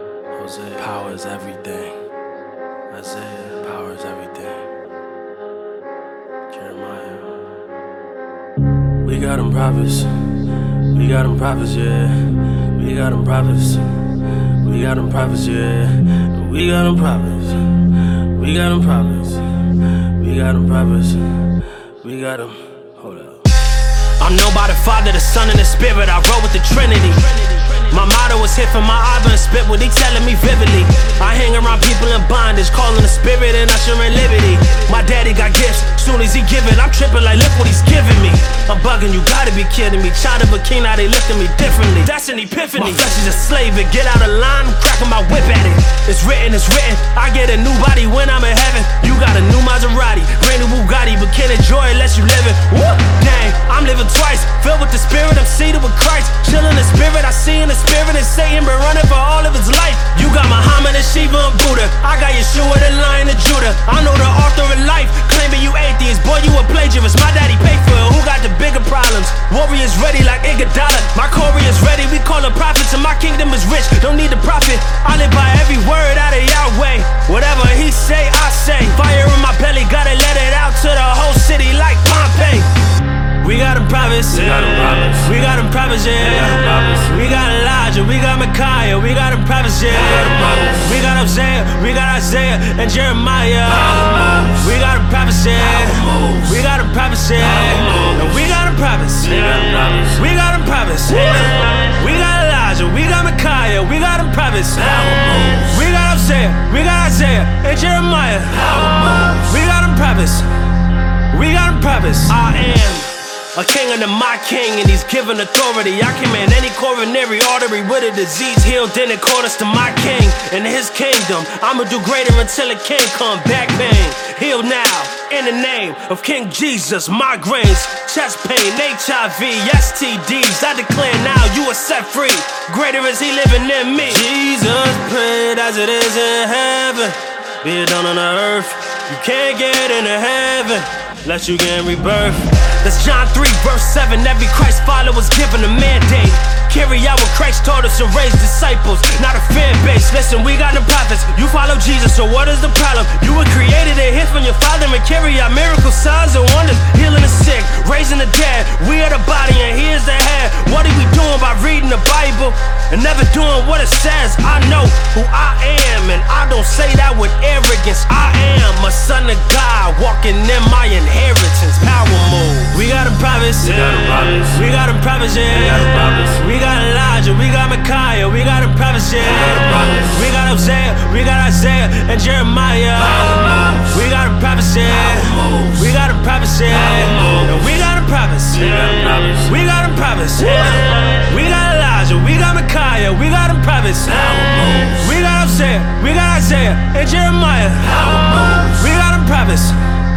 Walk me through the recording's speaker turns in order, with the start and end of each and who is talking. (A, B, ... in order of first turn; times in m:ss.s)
0:00.3-0:02.0 A
0:02.9-0:04.7 A
0:06.5-0:07.5 A
0:09.0-1:22.8 A
1:23.4-1:50.5 A
1:51.3-3:19.8 A